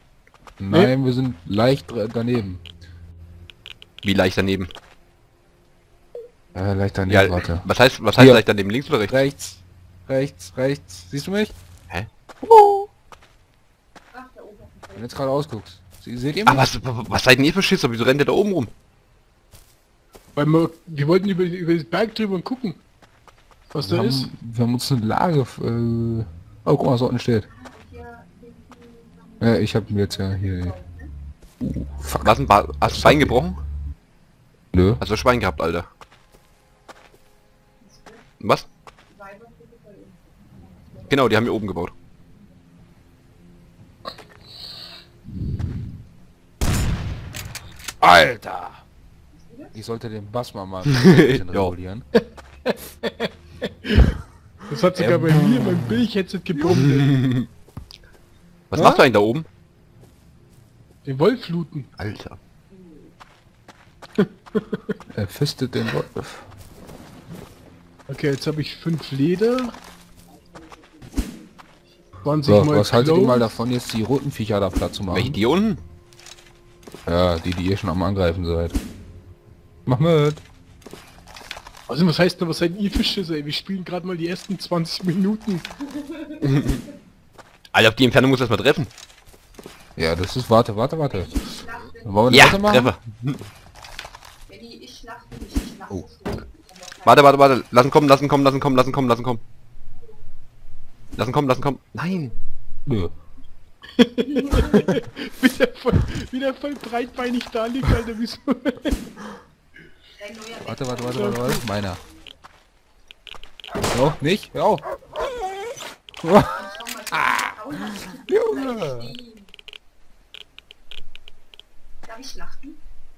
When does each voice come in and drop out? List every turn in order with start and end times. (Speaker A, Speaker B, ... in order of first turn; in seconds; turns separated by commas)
Speaker A: 0.6-2.6, Speaker B: 4.0-4.7, Speaker A: 6.5-8.4, Speaker B: 7.1-9.2, Speaker A: 9.1-11.5, Speaker A: 12.4-12.9, Speaker C: 14.1-15.4, Speaker A: 14.9-16.7, Speaker B: 16.4-18.7, Speaker D: 20.3-22.8, Speaker D: 23.7-24.3, Speaker A: 23.8-27.5, Speaker C: 27.5-31.1, Speaker A: 29.4-30.8, Speaker A: 31.6-33.4, Speaker B: 32.2-33.6, Speaker A: 34.7-35.0, Speaker B: 35.0-35.9, Speaker C: 37.8-38.3, Speaker B: 38.4-38.7, Speaker C: 39.1-41.5, Speaker B: 41.0-41.9, Speaker A: 48.0-48.8, Speaker C: 49.4-49.7, Speaker A: 49.7-52.0, Speaker B: 50.8-51.7, Speaker D: 52.7-54.1, Speaker D: 54.7-57.2, Speaker A: 54.9-56.0, Speaker B: 56.7-57.5, Speaker A: 58.7-59.0, Speaker B: 58.7-59.5, Speaker D: 61.0-61.9, Speaker B: 62.0-62.4, Speaker C: 62.7-63.1, Speaker D: 64.2-64.9, Speaker A: 65.1-66.5, Speaker D: 68.1-69.8, Speaker C: 70.2-72.2, Speaker D: 72.2-73.6, Speaker A: 72.5-75.4, Speaker B: 75.1-75.8, Speaker A: 77.0-78.8, Speaker A: 79.8-80.4, Speaker D: 81.9-85.7, Speaker C: 86.0-86.8, Speaker B: 86.4-86.8, Speaker B: 87.7-88.9, Speaker A: 90.0-91.4, Speaker C: 91.2-92.3, Speaker A: 92.0-92.9, Speaker B: 92.3-93.4, Speaker C: 94.5-97.4, Speaker B: 97.0-99.4, Speaker B: 101.2-102.3, Speaker A: 102.9-103.1, Speaker D: 104.0-109.1, Speaker C: 110.2-111.1, Speaker A: 110.6-112.0, Speaker D: 111.1-111.6, Speaker A: 113.9-114.8, Speaker A: 116.2-119.2, Speaker C: 116.5-119.5, Speaker C: 122.0-122.8